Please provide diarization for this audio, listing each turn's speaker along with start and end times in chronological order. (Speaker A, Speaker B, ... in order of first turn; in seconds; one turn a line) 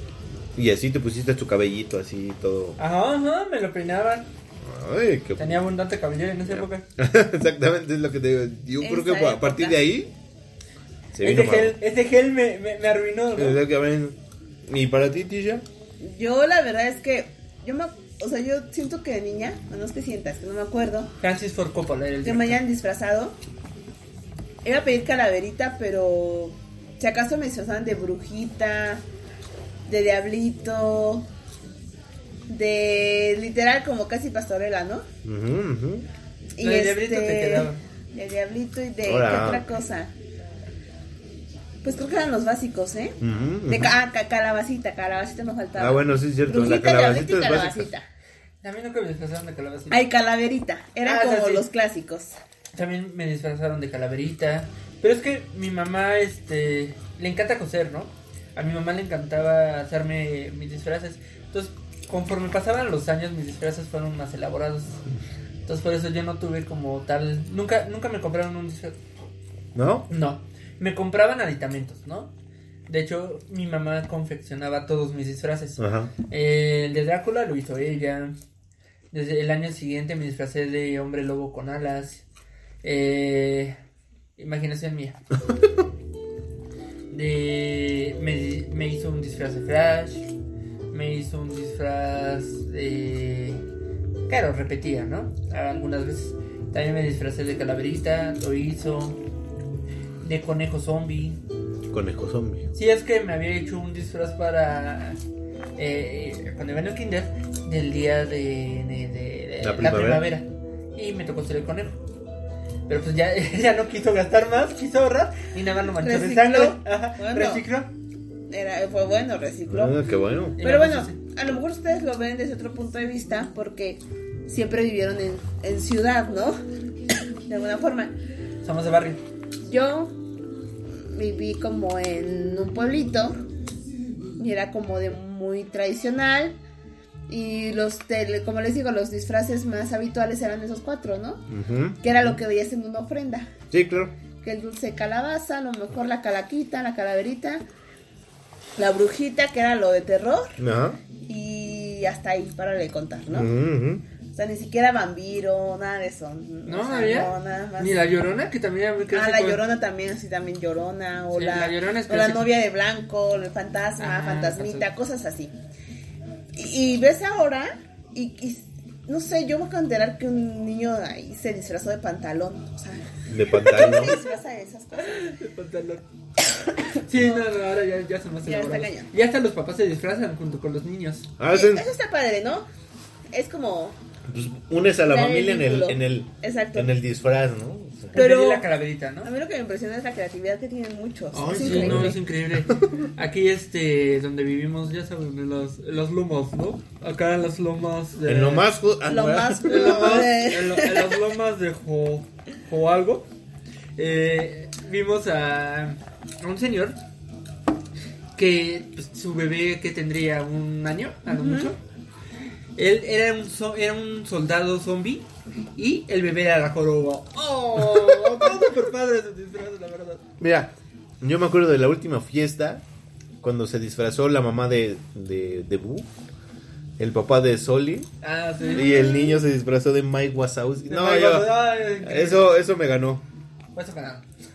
Speaker A: 0.6-2.8
Speaker B: 2.8-4.3
Speaker A: 4.6-5.6
Speaker B: 5.4-6.8
Speaker A: 6.5-10.1
Speaker C: 8.8-9.8
Speaker A: 11.1-11.8
Speaker B: 11.2-13.6
Speaker A: 13.3-15.6
Speaker C: 16.0-21.1
Speaker B: 21.2-22.6
Speaker C: 22.2-23.4
Speaker C: 24.6-29.0
Speaker C: 29.9-31.3
Speaker C: 32.5-35.0
Speaker A: 35.2-36.1
Speaker C: 36.6-40.1
Speaker B: 36.6-37.8
Speaker A: 39.0-39.7
Speaker C: 41.8-48.0
Speaker A: 43.2-43.9
Speaker A: 45.8-47.9
Speaker B: 48.6-50.0
Speaker C: 49.9-52.4
Speaker B: 51.0-51.7
Speaker B: 52.7-65.0
Speaker B: 65.7-69.0
Speaker A: 69.7-70.1
Speaker B: 70.1-72.3
Speaker B: 72.9-78.3
Speaker A: 75.8-76.1
Speaker B: 79.1-82.2
Speaker B: 82.8-83.8
Speaker B: 84.4-85.2
Speaker B: 87.1-90.3
Speaker B: 90.9-93.6
Speaker B: 94.3-99.2
Speaker B: 100.2-101.4
Speaker A: 101.9-102.7
Speaker B: 102.7-105.2
Speaker B: 105.8-112.0
Speaker A: 109.6-110.3
Speaker B: 112.9-117.9
Speaker C: 116.0-117.7
Speaker C: 118.5-120.0
Speaker A: 119.7-120.6
Speaker B: 120.6-121.2
Speaker C: 120.6-126.6
Speaker C: 127.5-128.1
Speaker B: 128.6-129.2
Speaker C: 129.6-130.1
Speaker C: 131.1-133.4
Speaker C: 134.4-136.5
Speaker C: 137.3-141.4
Speaker A: 141.5-142.0
Speaker C: 142.0-143.5
Speaker A: 143.7-144.1
Speaker C: 144.4-147.6
Speaker C: 148.8-150.6
Speaker A: 150.6-151.0
Speaker C: 151.2-153.5
Speaker A: 153.3-154.0
Speaker C: 154.3-158.0
Speaker B: 156.7-159.6
Speaker C: 159.1-165.5
Speaker B: 161.3-162.5
Speaker B: 164.0-164.9
Speaker C: 166.5-175.4
Speaker A: 173.3-174.2
Speaker B: 173.7-174.3
Speaker B: 175.0-176.0
Speaker B: 177.0-181.3
Speaker C: 178.4-179.1
Speaker A: 181.4-181.9
Speaker C: 181.5-182.7
Speaker C: 183.3-184.0
Speaker A: 184.3-188.2
Speaker C: 185.0-186.9
Speaker C: 188.1-188.7
Speaker B: 188.1-189.3
Speaker C: 189.2-192.2
Speaker B: 191.3-198.7
Speaker A: 191.6-193.1
Speaker A: 198.2-200.3
Speaker C: 199.1-201.1
Speaker B: 199.6-203.3
Speaker B: 204.0-207.0
Speaker B: 208.3-211.8
Speaker C: 211.3-211.7
Speaker B: 212.8-220.2
Speaker C: 217.5-218.4
Speaker A: 220.4-222.8
Speaker A: 223.4-226.1
Speaker A: 227.0-228.1
Speaker B: 228.2-229.0
Speaker C: 228.6-229.4
Speaker A: 228.7-233.2
Speaker B: 230.9-232.6
Speaker B: 233.7-234.2